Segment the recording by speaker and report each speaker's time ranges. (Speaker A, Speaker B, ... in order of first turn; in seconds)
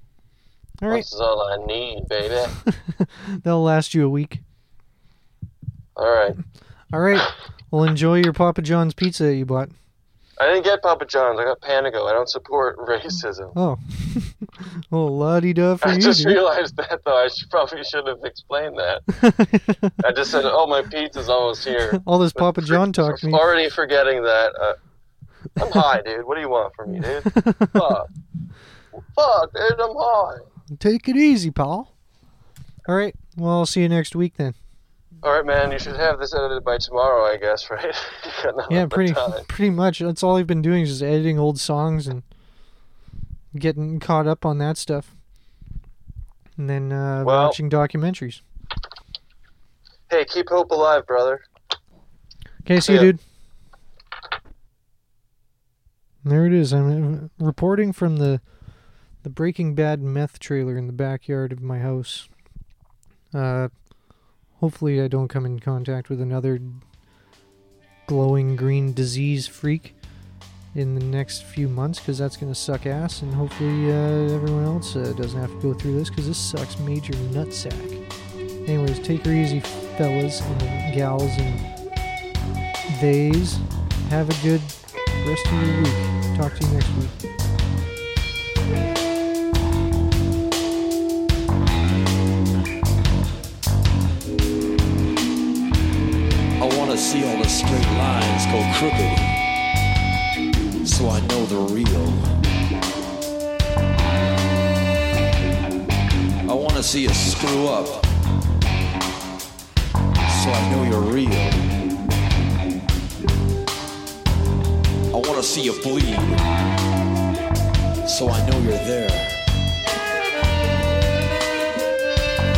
Speaker A: 0.8-1.1, 2.7-4.4, 6.9-9.7, 13.6-16.4, 19.2-19.9, 21.9-23.5, 27.3-27.9, 30.8-31.9, 32.9-34.5, 38.7-42.3, 43.5-45.1, 46.6-48.4, 52.6-53.2, 56.2-58.4, 59.2-62.3, 63.3-63.7, 64.6-66.8, 68.1-70.0, 70.7-78.0, 78.7-81.6, 82.9-87.2
Speaker B: 0.9-2.6, 6.0-6.4, 10.4-13.6, 15.8-19.0, 20.0-24.8, 25.6-28.1, 29.1-30.5, 35.2-39.5, 47.2-47.6, 50.1-51.5, 52.9-53.1
Speaker C: 96.6-99.3, 100.8-102.3, 106.5-108.1, 110.3-111.7, 115.1-116.4, 118.0-119.3